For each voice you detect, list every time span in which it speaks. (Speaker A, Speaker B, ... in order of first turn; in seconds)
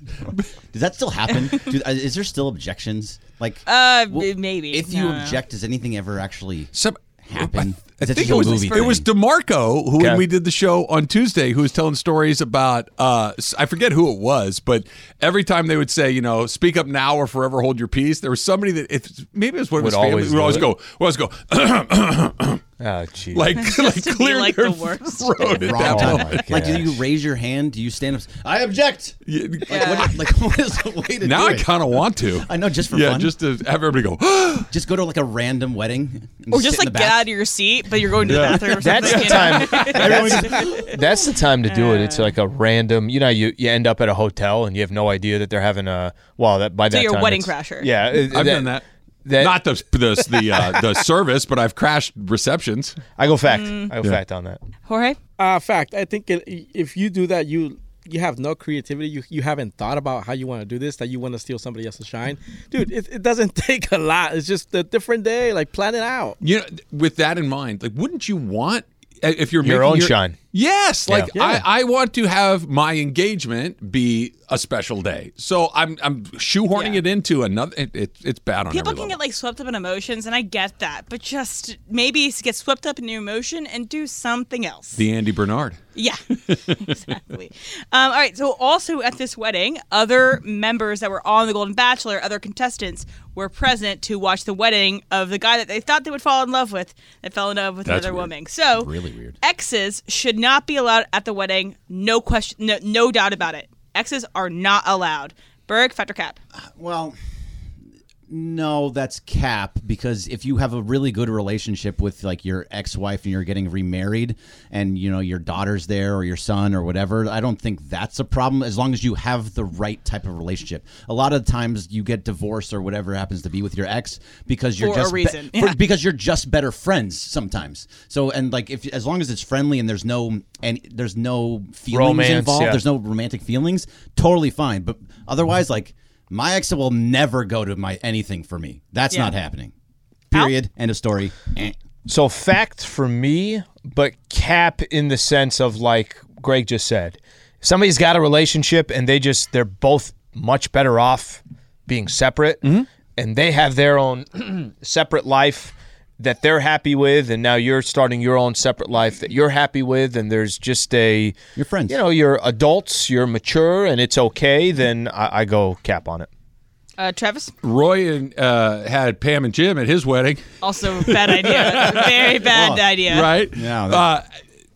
Speaker A: 0.7-6.7, 7.2-9.1, 25.5-31.7, 32.4-33.3, 34.7-37.3, 38.2-40.8, 98.8-99.4, 106.5-107.2, 108.3-139.7, 140.3-141.7, 161.5-162.0, 172.5-172.8, 173.4-174.1
Speaker B: 3.6-5.4, 8.2-8.8, 23.6-25.7, 29.7-30.1, 36.5-40.9, 41.7-42.3, 46.9-47.9, 53.5-53.9, 54.9-55.2, 76.7-77.0, 78.7-85.0, 85.9-98.9, 99.4-106.4, 124.8-125.8, 167.0-167.5, 170.6-173.3
Speaker C: 6.7-22.6, 23.3-26.5, 29.3-30.1, 31.2-34.7, 38.2-40.3, 48.3-48.8, 49.4-53.0, 66.4-79.2, 85.0-85.8, 86.5-86.9, 97.8-98.3, 167.6-172.4, 173.1-174.2
Speaker D: 19.8-20.7, 22.8-23.6, 25.8-27.0, 38.8-49.6, 53.1-54.6, 69.6-70.3, 71.1-71.6, 131.9-132.8, 142.1-161.4, 161.9-166.3
Speaker E: 55.4-66.4, 71.3-71.6